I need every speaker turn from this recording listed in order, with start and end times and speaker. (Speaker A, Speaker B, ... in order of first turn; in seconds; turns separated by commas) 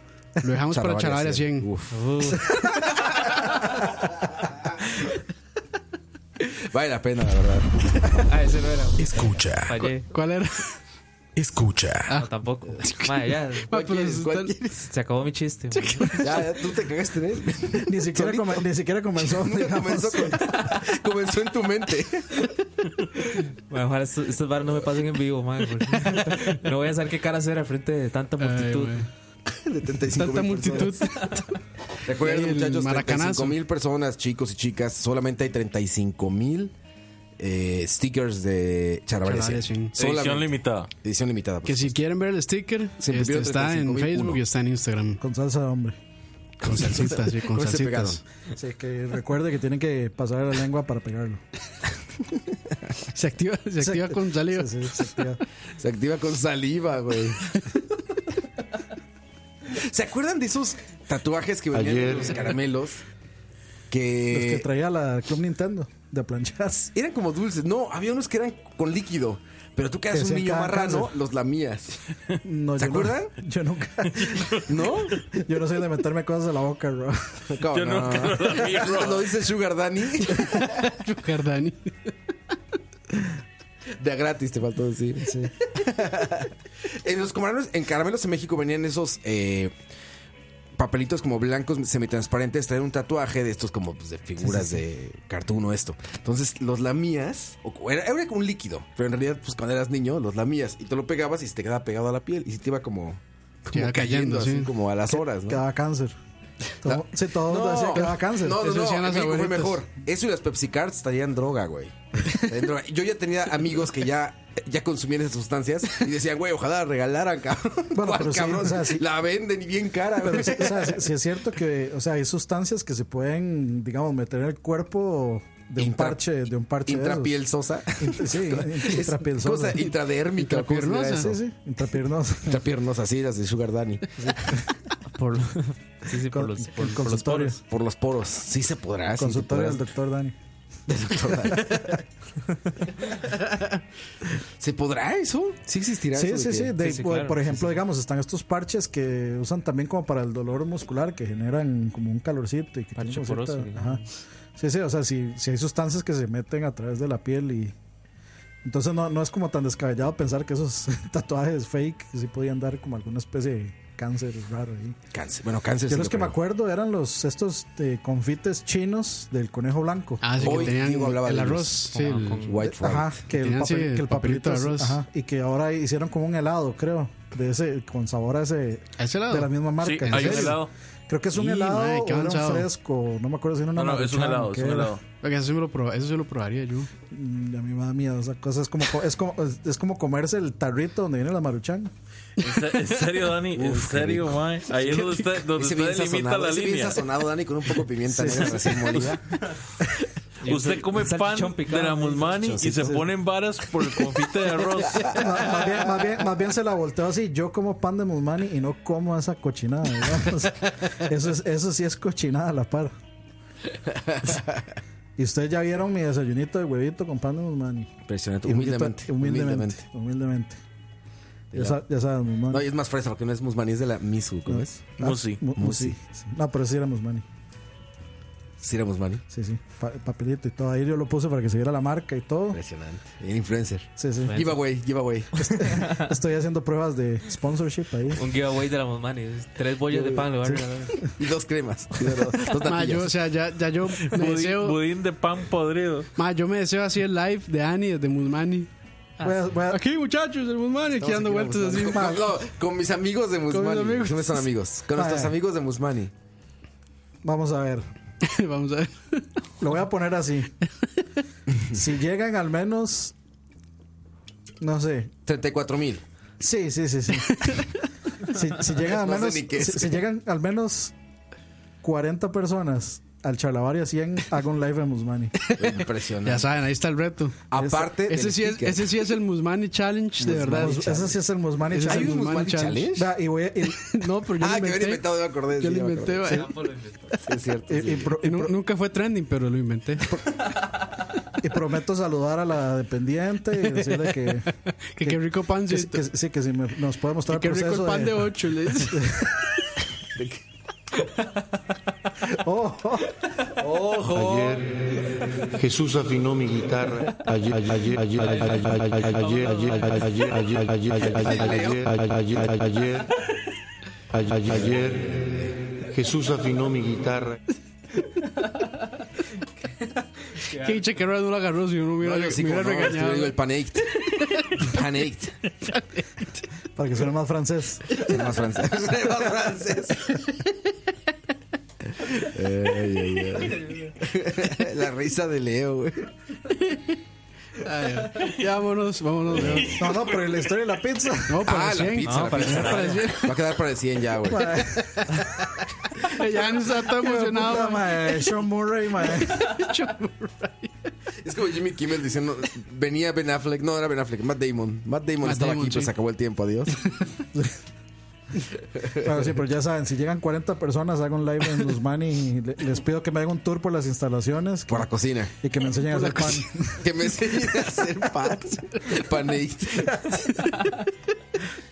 Speaker A: 0.4-1.7, Speaker B: 0.7-2.0, Speaker C: 1.9-2.5, Speaker B: 2.5-3.1, Speaker B: 6.4-8.2, Speaker C: 8.2-10.1, Speaker B: 9.0-9.8, Speaker A: 10.1-10.7, Speaker B: 11.4-12.1, Speaker C: 12.1-13.7, Speaker A: 13.7-14.5, Speaker B: 13.7-14.9, Speaker C: 14.9-16.2, Speaker A: 15.8-16.5, Speaker B: 16.2-18.6, Speaker D: 17.9-20.5, Speaker B: 19.2-22.5, Speaker C: 23.7-29.0, Speaker A: 28.4-29.1, Speaker B: 29.5-31.1, Speaker A: 30.2-31.6, Speaker B: 32.1-36.7, Speaker A: 32.2-33.6, Speaker B: 37.4-42.0, Speaker A: 39.2-39.9, Speaker E: 40.0-40.9, Speaker A: 41.6-45.2, Speaker B: 43.0-44.4, Speaker D: 45.2-46.0, Speaker B: 46.6-48.2, Speaker A: 46.6-48.2, Speaker D: 48.5-51.4, Speaker A: 53.1-55.0, Speaker D: 53.8-55.4, Speaker B: 55.8-57.5, Speaker B: 59.7-63.0, Speaker F: 61.7-62.4, Speaker B: 63.9-64.7, Speaker D: 64.3-66.9, Speaker B: 66.9-72.0, Speaker D: 70.1-71.1, Speaker D: 72.4-74.5, Speaker B: 72.8-73.3, Speaker B: 74.7-75.2, Speaker D: 75.3-77.4, Speaker B: 77.5-80.9, Speaker E: 77.7-79.4, Speaker A: 80.3-82.1, Speaker B: 84.0-89.7, Speaker D: 85.2-85.5, Speaker B: 90.8-105.6, Speaker A: 103.7-104.7, Speaker D: 105.1-106.2, Speaker D: 106.8-108.7, Speaker B: 106.8-121.0, Speaker A: 108.5-109.8, Speaker D: 117.9-119.1, Speaker D: 120.2-127.4, Speaker B: 125.8-126.2, Speaker B: 126.9-131.3, Speaker D: 128.0-129.9, Speaker A: 130.4-131.3, Speaker D: 131.2-132.6, Speaker B: 132.5-134.6, Speaker C: 135.1-137.5, Speaker D: 136.3-137.6, Speaker B: 137.7-139.8, Speaker D: 139.2-140.4, Speaker B: 140.9-142.0, Speaker B: 144.6-146.8, Speaker D: 146.1-154.0, Speaker C: 146.8-147.8, Speaker C: 153.0-154.1, Speaker D: 154.6-157.8, Speaker D: 158.6-165.0, Speaker B: 165.1-166.3, Speaker D: 165.9-170.6, Speaker A: 170.2-172.5, Speaker B: 170.4-171.9, Speaker C: 171.9-172.7, Speaker B: 172.5-173.2, Speaker D: 172.7-185.0, Speaker A: 173.3-175.0, Speaker A: 179.0-179.5, Speaker E: 179.8-180.7, Speaker A: 180.1-180.5, Speaker A: 181.3-182.7, Speaker E: 183.8-185.0, Speaker A: 185.2-186.9, Speaker D: 187.1-191.9, Speaker E: 192.4-197.1, Speaker B: 193.5-199.2, Speaker D: 198.1-198.8, Speaker C: 200.4-202.4, Speaker E: 200.4-205.3, Speaker B: 202.5-203.0, Speaker D: 202.6-203.1, Speaker B: 204.5-205.7, Speaker D: 205.1-212.9, Speaker B: 213.9-214.7, Speaker D: 215.2-217.9, Speaker B: 218.1-219.8, Speaker D: 218.4-220.6, Speaker B: 221.5-221.8, Speaker D: 221.5-222.7, Speaker B: 222.5-224.9, Speaker D: 224.5-227.2, Speaker E: 225.0-225.4, Speaker B: 225.6-226.0, Speaker B: 228.6-229.2, Speaker D: 229.3-232.6, Speaker B: 232.5-235.6, Speaker D: 234.0-234.4, Speaker C: 234.2-234.6, Speaker D: 235.4-238.2, Speaker C: 235.6-236.1, Speaker C: 238.2-240.9, Speaker B: 239.9-240.3, Speaker B: 241.2-243.2, Speaker A: 242.6-244.8, Speaker E: 244.0-246.1, Speaker A: 246.2-248.7, Speaker D: 249.2-249.8, Speaker A: 249.7-252.3, Speaker B: 251.0-256.1, Speaker A: 253.5-254.4, Speaker D: 254.9-255.3, Speaker D: 257.2-257.9, Speaker A: 258.2-259.3, Speaker D: 259.6-260.5, Speaker D: 261.7-263.1, Speaker D: 264.6-265.1, Speaker B: 265.2-266.0, Speaker D: 266.4-267.5, Speaker A: 267.4-267.6, Speaker D: 268.2-270.9, Speaker B: 268.7-270.0, Speaker D: 271.8-275.4, Speaker B: 275.6-276.5, Speaker A: 276.2-277.4, Speaker B: 277.5-279.1, Speaker D: 277.6-277.9, Speaker A: 278.1-281.1, Speaker B: 280.2-281.0, Speaker D: 280.4-282.4, Speaker A: 281.7-282.9, Speaker B: 281.8-283.1, Speaker D: 282.9-284.0, Speaker A: 283.8-286.5, Speaker B: 284.4-286.4, Speaker C: 286.3-287.1, Speaker B: 287.2-288.2, Speaker D: 287.7-288.6, Speaker A: 288.2-290.1, Speaker D: 291.4-294.5, Speaker A: 293.7-294.2, Speaker A: 294.7-296.0, Speaker D: 295.0-299.4, Speaker A: 297.3-299.1, Speaker D: 302.2-303.2, Speaker B: 303.6-304.2, Speaker F: 304.0-313.1, Speaker B: 311.2-311.8, Speaker F: 314.1-317.4, Speaker A: 320.5-323.4, Speaker B: 322.0-325.4, Speaker A: 324.2-324.6, Speaker A: 325.7-326.3, Speaker D: 326.8-328.0, Speaker B: 328.0-330.2, Speaker B: 332.0-336.1, Speaker A: 337.6-339.8, Speaker D: 339.7-341.5, Speaker A: 341.3-343.5, Speaker B: 341.4-344.6, Speaker C: 342.0-343.1, Speaker D: 344.3-345.2, Speaker A: 344.7-345.3, Speaker A: 346.1-348.2, Speaker D: 346.9-349.6, Speaker A: 349.1-350.7, Speaker B: 351.2-356.8, Speaker A: 355.2-355.9, Speaker D: 359.0-364.9, Speaker B: 364.7-365.3, Speaker D: 365.4-366.8, Speaker A: 365.9-366.4, Speaker B: 366.8-370.2